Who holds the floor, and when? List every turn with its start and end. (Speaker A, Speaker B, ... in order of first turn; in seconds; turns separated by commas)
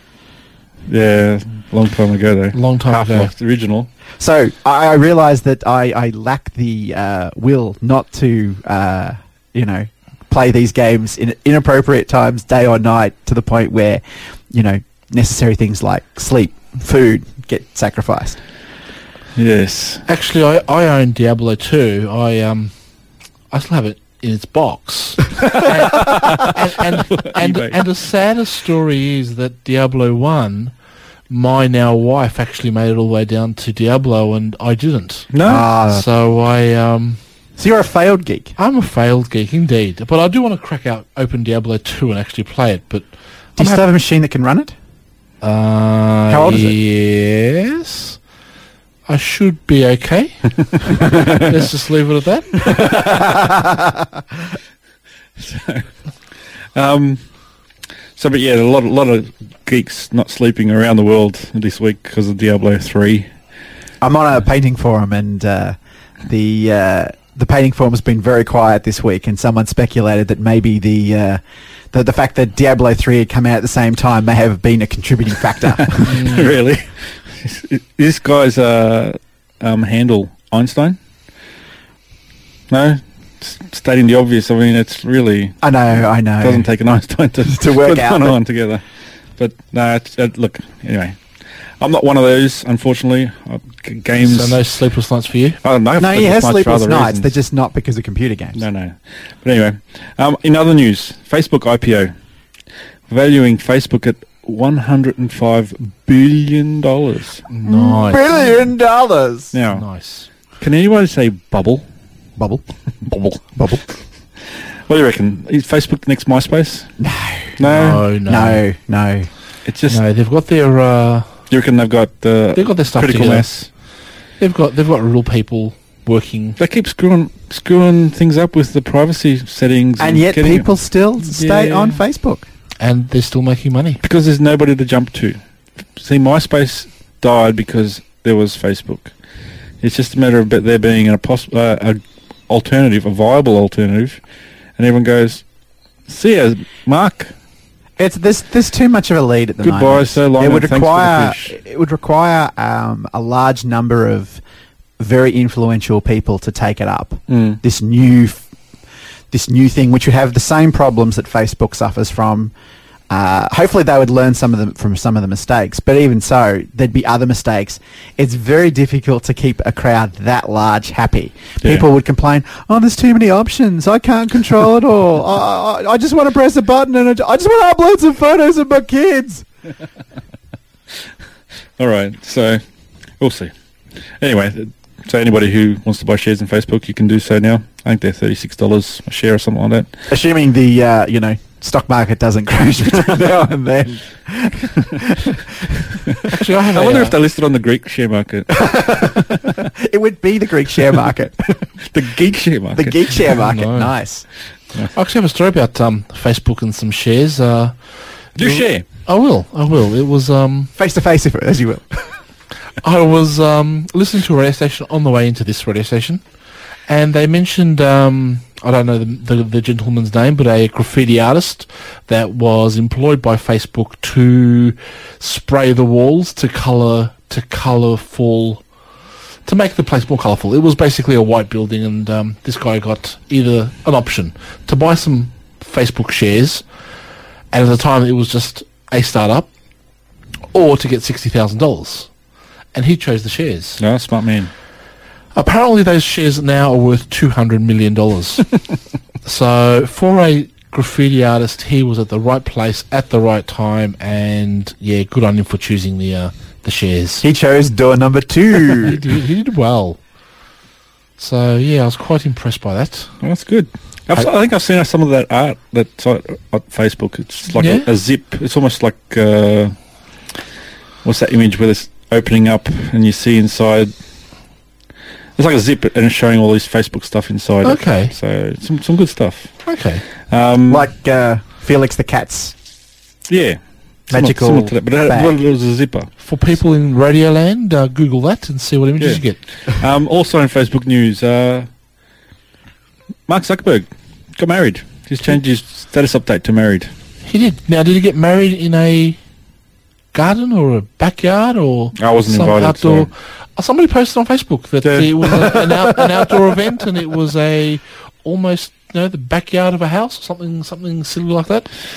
Speaker A: 0.9-3.9, Speaker B: 2.5-3.3, Speaker C: 4.2-18.4, Speaker A: 19.4-20.0, Speaker B: 20.1-22.7, Speaker B: 23.5-30.7, Speaker A: 25.9-27.8, Speaker B: 31.3-35.3, Speaker A: 35.3-35.7, Speaker C: 35.4-36.0, Speaker B: 35.9-37.2, Speaker C: 37.6-38.5, Speaker B: 38.6-43.1, Speaker C: 43.6-44.7, Speaker B: 45.4-48.2, Speaker C: 46.3-46.7, Speaker B: 49.1-50.4, Speaker B: 50.9-52.5, Speaker A: 52.7-53.3, Speaker C: 52.8-54.1, Speaker A: 55.4-55.9, Speaker A: 56.7-57.2, Speaker A: 58.2-63.3, Speaker C: 64.0-76.2, Speaker A: 75.8-81.0, Speaker B: 76.1-76.4, Speaker A: 82.7-85.6, Speaker C: 85.6-86.7, Speaker A: 86.4-88.8, Speaker C: 87.5-88.4, Speaker A: 89.4-91.2, Speaker A: 91.8-94.6, Speaker B: 94.2-95.6, Speaker A: 95.6-97.3, Speaker C: 96.0-98.6, Speaker A: 98.5-102.1, Speaker A: 103.1-107.4, Speaker B: 107.5-108.4, Speaker C: 107.6-109.5, Speaker A: 109.5-109.8, Speaker B: 109.7-110.3, Speaker A: 110.6-111.8, Speaker C: 112.4-112.6, Speaker A: 113.0-113.4, Speaker C: 113.5-113.8, Speaker A: 114.9-116.9, Speaker C: 117.0-117.6, Speaker A: 117.6-118.0, Speaker B: 117.6-118.6, Speaker C: 118.2-119.3, Speaker A: 119.7-120.0, Speaker B: 119.9-121.3, Speaker A: 121.5-123.7, Speaker B: 122.5-123.5, Speaker B: 124.4-126.6, Speaker A: 126.6-130.7, Speaker C: 130.0-132.4, Speaker A: 131.2-132.0, Speaker B: 132.8-134.0, Speaker A: 134.0-135.4, Speaker A: 136.0-139.1, Speaker A: 139.8-144.2, Speaker A: 144.8-145.4, Speaker A: 146.1-147.3, Speaker C: 148.0-154.4, Speaker A: 149.6-151.6, Speaker C: 155.0-158.4, Speaker A: 157.3-157.6, Speaker C: 159.3-162.5, Speaker C: 163.1-179.4, Speaker A: 181.8-182.6, Speaker A: 183.2-183.5, Speaker A: 184.2-189.9, Speaker C: 190.1-196.3, Speaker A: 196.1-199.5, Speaker B: 196.3-197.2, Speaker C: 198.5-201.7, Speaker A: 201.9-203.2, Speaker C: 202.7-204.2, Speaker B: 203.3-203.9, Speaker B: 204.9-207.7, Speaker A: 208.3-208.8, Speaker B: 208.4-210.7, Speaker C: 210.8-212.2, Speaker B: 212.8-216.2, Speaker B: 216.9-228.6, Speaker B: 229.4-236.6, Speaker B: 237.5-239.5, Speaker B: 240.5-242.1, Speaker B: 242.7-243.8, Speaker A: 243.8-244.5, Speaker B: 245.3-248.5, Speaker B: 249.2-257.2, Speaker C: 257.2-259.0, Speaker B: 258.8-260.0, Speaker B: 261.2-263.1, Speaker A: 263.2-269.7, Speaker B: 267.5-267.9, Speaker A: 271.0-273.9, Speaker A: 275.4-279.5, Speaker B: 277.6-278.1, Speaker B: 279.6-280.0, Speaker A: 280.3-280.9, Speaker C: 280.7-282.5, Speaker A: 283.3-283.6, Speaker A: 284.1-286.1, Speaker C: 284.1-285.3, Speaker B: 286.2-289.4, Speaker A: 289.0-291.7, Speaker A: 293.3-296.9, Speaker B: 297.2-299.2, Speaker B: 300.1-311.7, Speaker A: 301.9-303.1, Speaker A: 304.8-306.0